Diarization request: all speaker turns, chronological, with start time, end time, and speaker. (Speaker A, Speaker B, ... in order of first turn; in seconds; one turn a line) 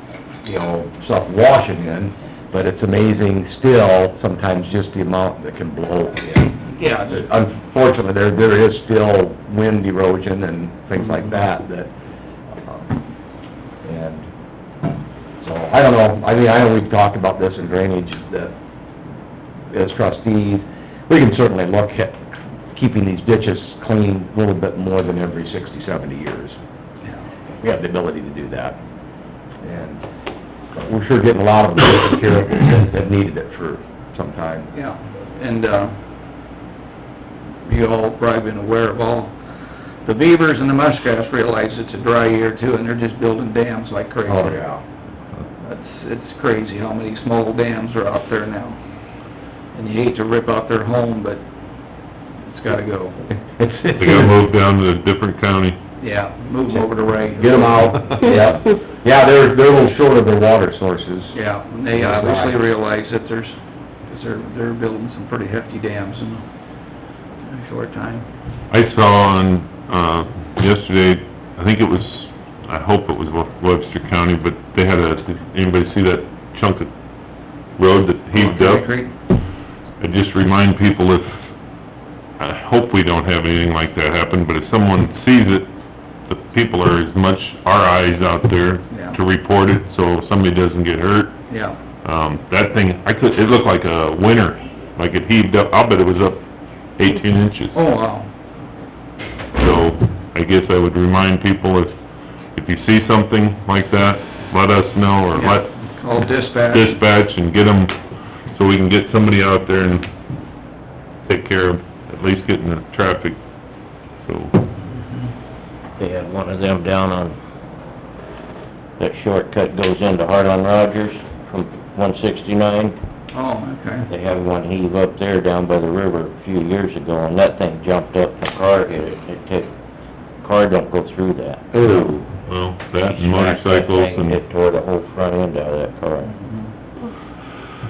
Speaker A: 0.4-11.9
Speaker B: 6.7-7.2
Speaker A: 12.6-12.9
Speaker A: 13.8-14.3
Speaker A: 15.4-18.5
Speaker A: 19.7-26.6
Speaker A: 27.6-28.8
Speaker A: 29.6-30.0
Speaker A: 30.8-34.7
Speaker B: 34.7-36.0
Speaker B: 37.6-39.4
Speaker B: 40.0-44.6
Speaker A: 44.2-44.8
Speaker B: 45.6-48.8
Speaker B: 49.7-51.4
Speaker B: 52.5-53.2
Speaker A: 53.5-54.3
Speaker C: 54.0-55.8
Speaker B: 56.0-58.2
Speaker A: 57.4-61.4
Speaker B: 61.3-63.5
Speaker A: 61.9-62.6
Speaker B: 64.1-66.4
Speaker B: 67.5-68.2
Speaker C: 68.7-76.9
Speaker C: 77.8-79.0
Speaker B: 78.3-79.1
Speaker C: 80.0-81.5
Speaker C: 82.4-85.7
Speaker C: 86.3-91.4
Speaker B: 88.9-89.2
Speaker B: 91.5-91.8
Speaker C: 92.0-96.4
Speaker C: 97.0-97.8
Speaker B: 97.7-98.3
Speaker C: 99.5-101.9
Speaker C: 102.5-105.8
Speaker B: 105.4-106.9
Speaker C: 106.7-108.0
Speaker C: 108.5-110.1
Speaker C: 111.2-113.4
Speaker C: 114.2-114.7
Speaker B: 114.9-115.3
Speaker D: 116.0-117.4
Speaker D: 119.0-123.0
Speaker B: 123.3-124.1
Speaker D: 124.1-129.7
Speaker D: 130.4-132.2
Speaker C: 131.8-134.4
Speaker D: 133.1-136.4